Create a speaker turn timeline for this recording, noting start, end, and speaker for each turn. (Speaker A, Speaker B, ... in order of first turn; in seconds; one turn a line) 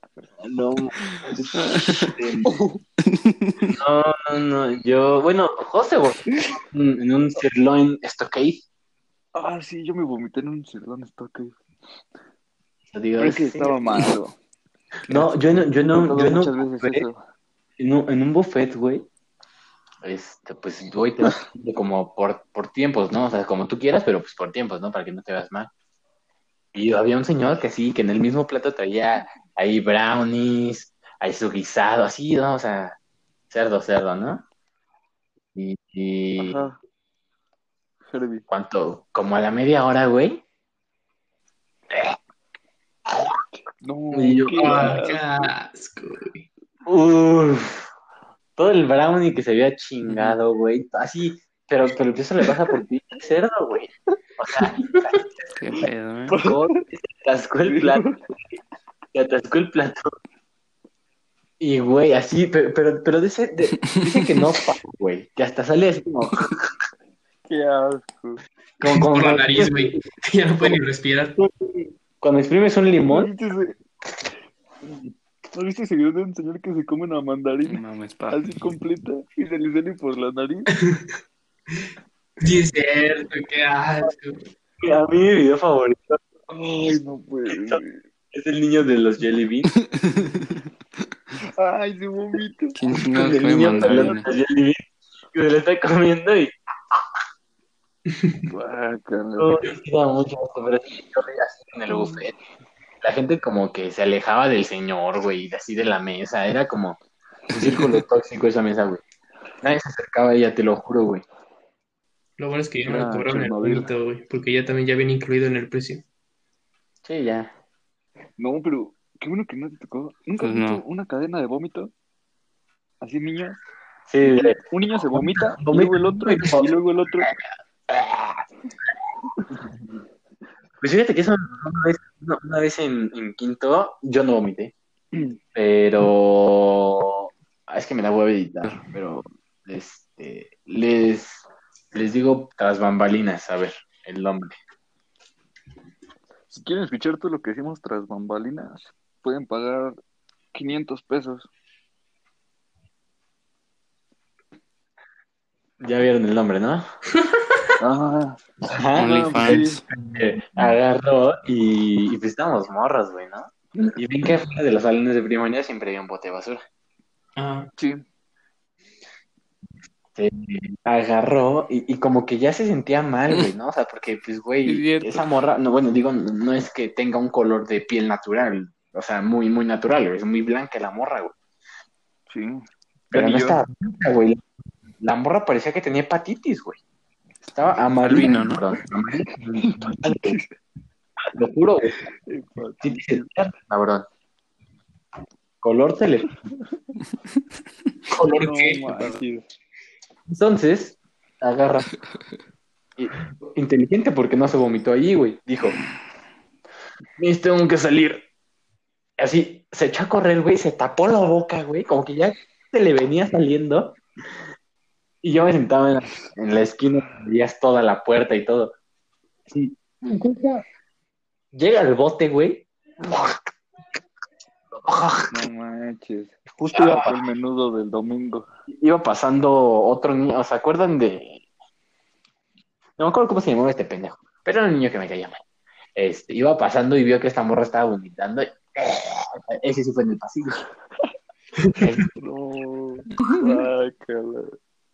Speaker A: 0.4-2.5
Speaker B: 1.5-2.1
Speaker C: 2.4-2.8
Speaker B: 3.1-3.8
Speaker A: 3.8-8.6
Speaker C: 9.3-11.6
Speaker A: 12.9-14.1
Speaker C: 13.2-14.4
Speaker A: 15.1-17.1
Speaker C: 15.1-17.2
Speaker A: 17.8-19.1
Speaker A: 20.0-25.7
Speaker A: 26.7-33.0
Speaker A: 33.5-34.4
Speaker A: 35.5-36.6
Speaker C: 36.4-36.8
Speaker C: 38.1-38.5
Speaker A: 38.5-40.4
Speaker A: 41.9-42.1
Speaker C: 43.8-45.5
Speaker A: 44.1-45.0
Speaker D: 44.6-46.5
Speaker A: 46.9-47.9
Speaker A: 48.6-55.5
Speaker B: 50.0-50.4
Speaker B: 55.5-56.4
Speaker C: 56.3-56.8
Speaker A: 56.4-58.1
Speaker C: 57.6-58.2
Speaker A: 59.1-60.1
Speaker A: 61.6-66.7
Speaker B: 63.8-64.5
Speaker C: 67.4-68.4
Speaker A: 68.8-70.0
Speaker D: 68.9-71.4
Speaker A: 71.4-73.3
Speaker C: 73.0-73.8
Speaker C: 75.5-80.7
Speaker B: 77.7-78.4
Speaker D: 80.7-81.1
Speaker D: 82.4-84.4
Speaker A: 84.8-86.2
Speaker C: 86.5-88.0
Speaker A: 88.3-89.7
Speaker C: 91.6-93.0
Speaker B: 92.8-94.3
Speaker A: 93.1-94.8
Speaker C: 93.7-94.2
Speaker A: 95.3-97.0
Speaker D: 98.1-98.4
Speaker C: 98.5-99.5
Speaker A: 99.4-102.4
Speaker C: 101.9-102.2
Speaker A: 103.0-107.0
Speaker A: 107.5-109.0
Speaker A: 109.6-111.2
Speaker D: 112.4-116.0
Speaker C: 112.9-113.9
Speaker A: 117.0-117.5
Speaker C: 118.4-121.9
Speaker B: 120.4-120.8
Speaker C: 123.0-123.6
Speaker A: 124.1-126.7
Speaker C: 124.2-127.3
Speaker A: 127.2-128.4
Speaker A: 130.8-134.7
Speaker A: 135.5-144.5
Speaker C: 146.5-150.0
Speaker C: 150.5-151.5
Speaker A: 155.8-156.8
Speaker C: 157.8-158.5
Speaker A: 158.7-166.6
Speaker B: 158.9-159.8
Speaker C: 159.4-159.8
Speaker D: 167.4-167.7
Speaker C: 167.8-168.0
Speaker A: 170.2-181.3
Speaker B: 174.6-175.2
Speaker C: 182.3-183.6
Speaker A: 183.1-184.4
Speaker A: 185.0-186.8
Speaker A: 187.4-190.4
Speaker B: 188.0-188.6
Speaker C: 189.6-190.6
Speaker A: 191.3-192.1
Speaker C: 192.2-193.3
Speaker A: 192.8-194.1
Speaker A: 195.6-196.3
Speaker D: 198.1-199.2
Speaker C: 198.3-199.4
Speaker A: 200.3-201.9
Speaker A: 203.0-205.8
Speaker A: 207.2-208.2
Speaker A: 209.2-214.0
Speaker A: 215.2-218.7
Speaker A: 219.5-220.6
Speaker A: 221.5-223.5
Speaker A: 224.7-225.3
Speaker C: 225.3-228.4
Speaker A: 226.5-227.2
Speaker A: 228.7-231.4
Speaker A: 233.0-235.4
Speaker A: 235.9-240.6
Speaker D: 241.6-241.9
Speaker A: 241.8-242.1
Speaker C: 242.2-244.6